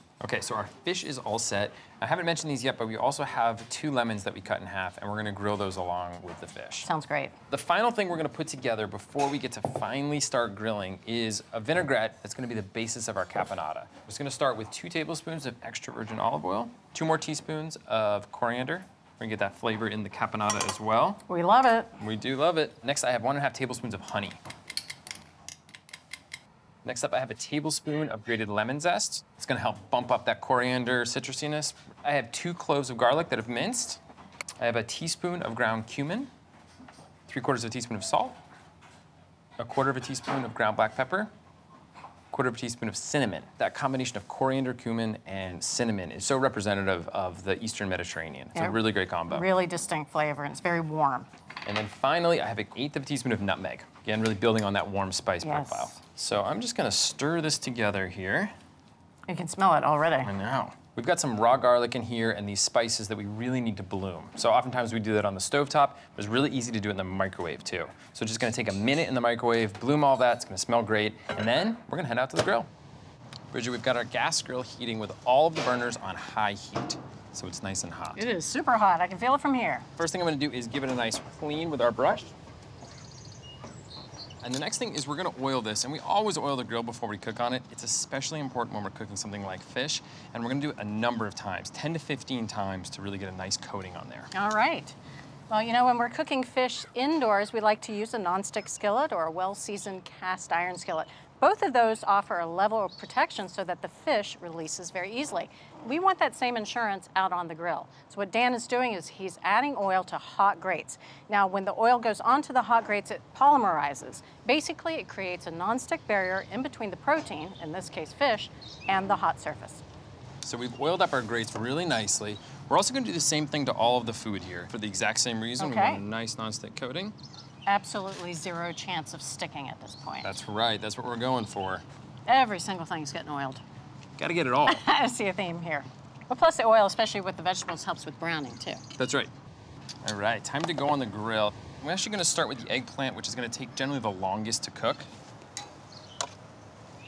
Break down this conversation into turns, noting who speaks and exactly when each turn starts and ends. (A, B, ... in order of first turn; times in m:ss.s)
0:00.2-0:06.9 A
0:06.8-0:07.4 B
0:07.5-0:21.2 A
0:21.3-0:21.9 B
0:22.0-0:24.4 A
0:26.8-0:34.0 A
0:34.6-0:36.3 A
0:37.3-0:38.4 A
0:39.6-0:41.3 A
0:42.3-0:49.5 A
0:48.6-0:51.3 B
0:51.7-0:58.5 A
0:55.4-0:56.0 B
0:59.3-1:00.3 B
1:00.2-1:12.7 A
1:13.5-1:18.2 A
1:18.2-1:19.9 B
1:20.0-1:22.3 A
1:24.4-1:34.3 A
1:34.3-1:35.0 B
1:35.5-1:59.8 B
2:00.4-2:07.2 A
2:05.6-2:06.0 B
2:07.7-2:10.3 B
2:10.2-2:11.8 A
2:12.3-2:13.6 B
2:14.2-2:14.8 A
2:14.7-2:18.8 B
2:19.0-2:19.3 A
2:20.0-2:25.1 A